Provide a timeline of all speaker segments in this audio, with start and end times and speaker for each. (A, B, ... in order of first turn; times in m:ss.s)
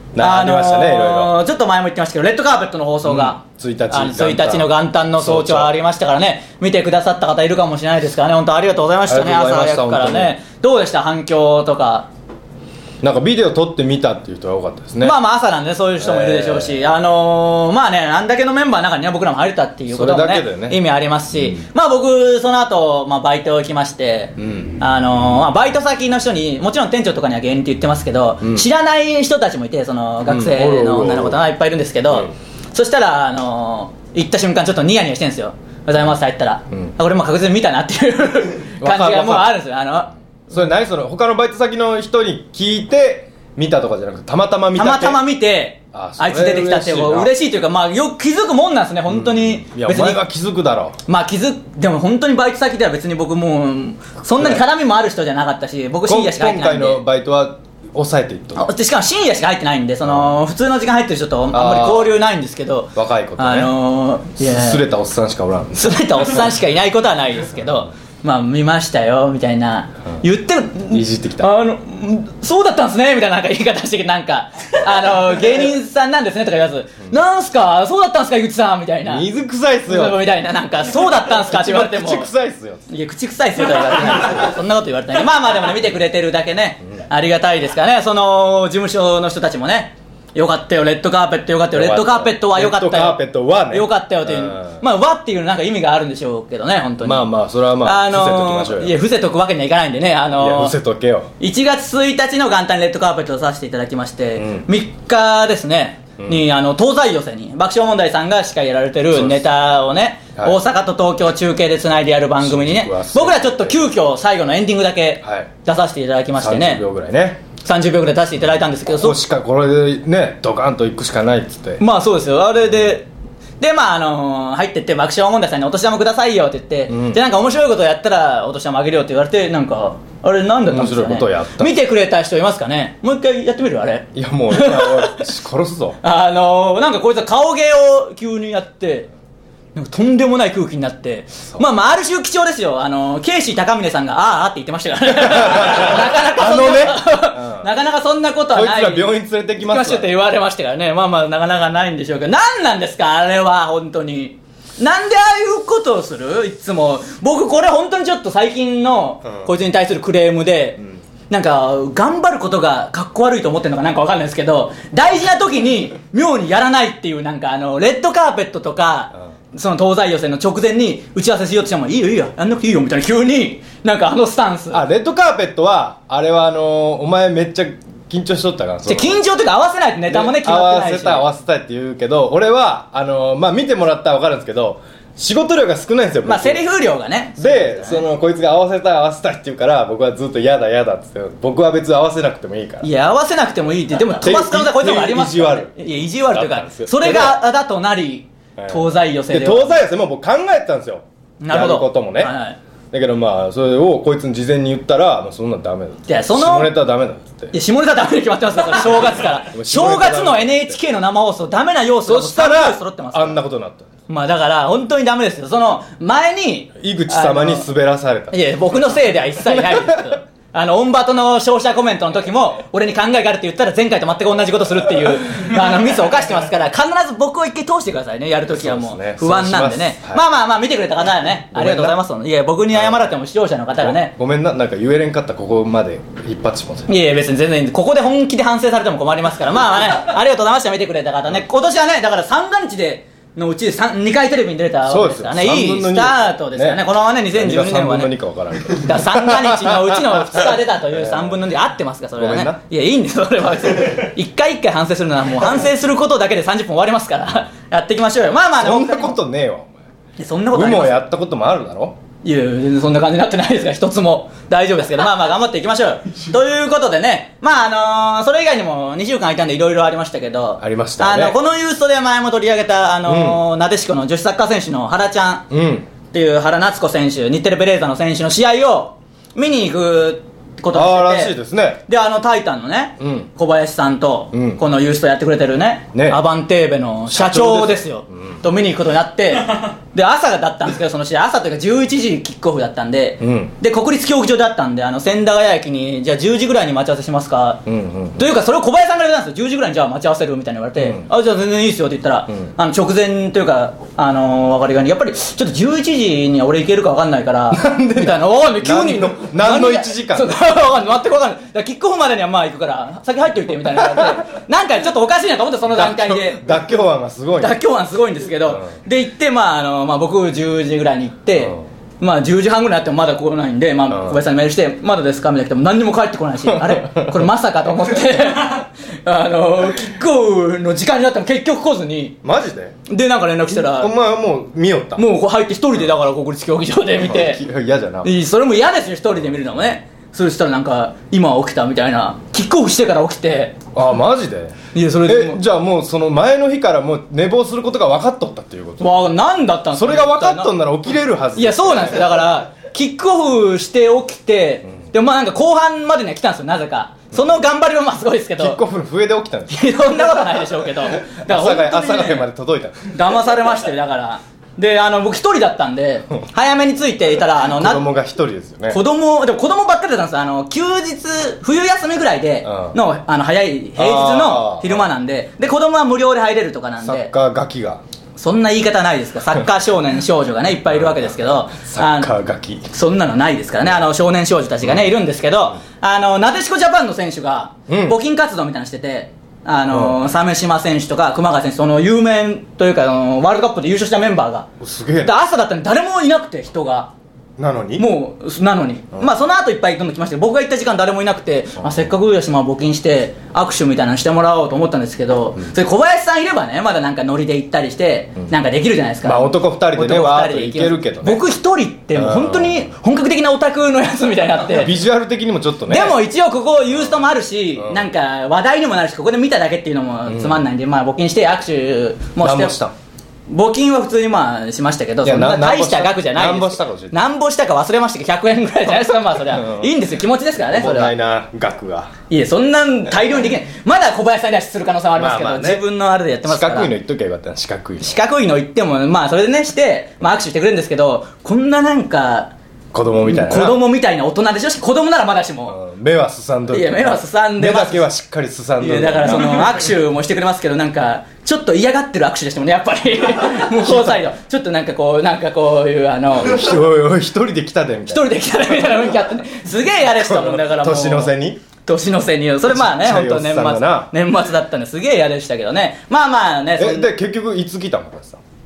0:00.1-0:01.4 A
0:00.2-0:12.1 B
0:03.0-0:05.7 A
0:09.1-0:10.4 A
0:13.0-0:15.2 A
0:15.0-0:40.1 B
0:16.0-0:16.8 A
0:19.9-0:20.8 A
0:21.3-0:21.6 A
0:24.4-0:24.7 A
0:30.3-0:31.4 A
0:38.8-0:39.6 A
0:40.5-0:45.2 A
0:44.8-0:50.2 B
0:45.9-0:47.3 A
0:49.1-0:51.0 A
0:51.1-0:57.0 B
0:56.1-0:58.7 A
0:58.6-1:04.8 B
1:00.0-1:00.3 A
1:01.5-1:02.2 A
1:03.0-1:03.7 A
1:04.4-1:06.0 A
1:05.8-1:19.3 B
1:10.9-1:11.5 A
1:19.0-1:20.2 A
1:19.9-1:22.3 B
1:21.4-1:22.9 A
1:22.9-1:40.8 B
1:31.7-1:34.8 A
1:37.0-1:39.0 A
1:40.4-1:41.3 A
1:41.4-1:56.8 B
1:44.4-1:44.7 A
1:49.1-1:49.4 A
1:52.4-1:53.9 A
1:55.2-1:55.5 A
1:56.4-1:57.4 A
1:57.6-1:59.2 B
1:58.9-2:01.8 A
2:01.8-2:03.1 B
2:03.6-2:15.2 B
2:06.9-2:07.2 A
2:10.7-2:11.8 A
2:14.1-2:16.0 A
2:16.0-2:19.1 B
2:19.8-2:29.1 B
2:25.2-2:27.7 A
2:28.5-2:30.1 A
2:29.6-2:54.8 B
2:54.7-2:59.2 A
2:58.9-3:01.3 B
3:00.1-3:06.6 A
3:06.2-3:08.0 B
3:07.4-3:12.9 A
3:12.8-3:19.8 B
3:14.1-3:17.4 A
3:18.6-3:22.3 A
3:21.4-3:22.6 B
3:22.9-3:27.5 A
3:26.1-3:26.7 B
3:27.5-3:33.4 B
3:29.5-3:30.8 A
3:32.0-3:33.9 A
3:34.1-3:37.7 B
3:36.8-3:38.8 A
3:38.3-3:54.1 B
3:39.5-3:40.0 A
3:48.5-3:50.2 A
3:51.5-3:52.0 A
3:52.7-3:53.0 A
3:53.8-3:56.9 A
3:56.9-4:08.1 B
4:04.9-4:11.4 A
4:08.8-4:19.2 B
4:12.2-4:12.6 A
4:18.6-4:19.8 A
4:20.2-4:21.0 B
4:20.5-4:22.0 A
4:22.2-4:35.5 B
4:30.6-4:31.4 A
4:33.1-4:33.4 A
4:35.5-4:35.9 A
4:36.1-4:41.4 B
4:40.7-4:41.8 A
4:41.9-4:57.6 B
4:43.0-4:43.3 A
4:44.3-4:44.6 A
4:45.9-4:46.2 A
4:47.1-4:48.4 A
4:53.2-4:53.5 A
4:57.7-4:58.2 A
4:58.2-5:16.4 B
5:00.8-5:01.1 A
5:07.5-5:10.4 A
5:15.7-5:17.6 A
5:17.4-5:32.2 B
5:23.9-5:24.2 A
5:26.5-5:27.1 A
5:32.2-5:32.8 A
5:32.9-5:33.9 B
5:33.5-5:35.0 A
5:35.0-5:37.4 B
5:37.0-5:38.1 A
5:38.0-5:43.6 B
5:43.7-5:49.1 A
5:44.7-5:45.4 B
5:48.8-5:50.5 B
5:49.7-5:52.2 A
5:51.4-5:58.6 B
5:58.4-5:59.7 A
5:59.5-6:02.3 B
6:01.1-6:02.9 A
6:02.9-6:07.8 B
6:07.5-6:08.8 A
6:08.7-6:17.1 B
6:12.4-6:12.8 A
6:13.8-6:14.9 A
6:16.8-6:17.8 A
6:18.2-6:22.1 B
6:20.7-6:22.7 A
6:22.7-6:34.5 B
6:24.6-6:24.9 A
6:27.7-6:28.0 A
6:29.7-6:30.1 A
6:34.6-6:35.1 A
6:35.0-6:36.9 B
6:37.4-6:37.9 A
6:37.8-6:54.7 B
6:49.0-6:51.2 A
6:51.9-6:52.7 A
6:54.6-6:56.0 A
6:55.7-7:02.6 B
6:57.6-6:57.9 A
7:00.1-7:00.5 A
7:02.2-7:02.7 A
7:03.3-7:10.9 B
7:05.0-7:07.0 A
7:09.3-7:09.7 A
7:10.5-7:11.9 A
7:12.1-7:16.7 B
7:15.0-7:15.6 A
7:16.3-7:18.0 A
7:17.8-7:22.3 B
7:22.7-7:23.6 A
7:23.0-7:25.6 B
7:25.5-7:29.6 A
7:26.5-7:27.9 B
7:28.6-7:36.6 B
7:33.6-7:34.0 A
7:36.2-7:38.1 A
7:37.9-7:46.9 B
7:39.9-7:41.4 A
7:42.5-7:43.9 A
7:46.6-7:48.2 A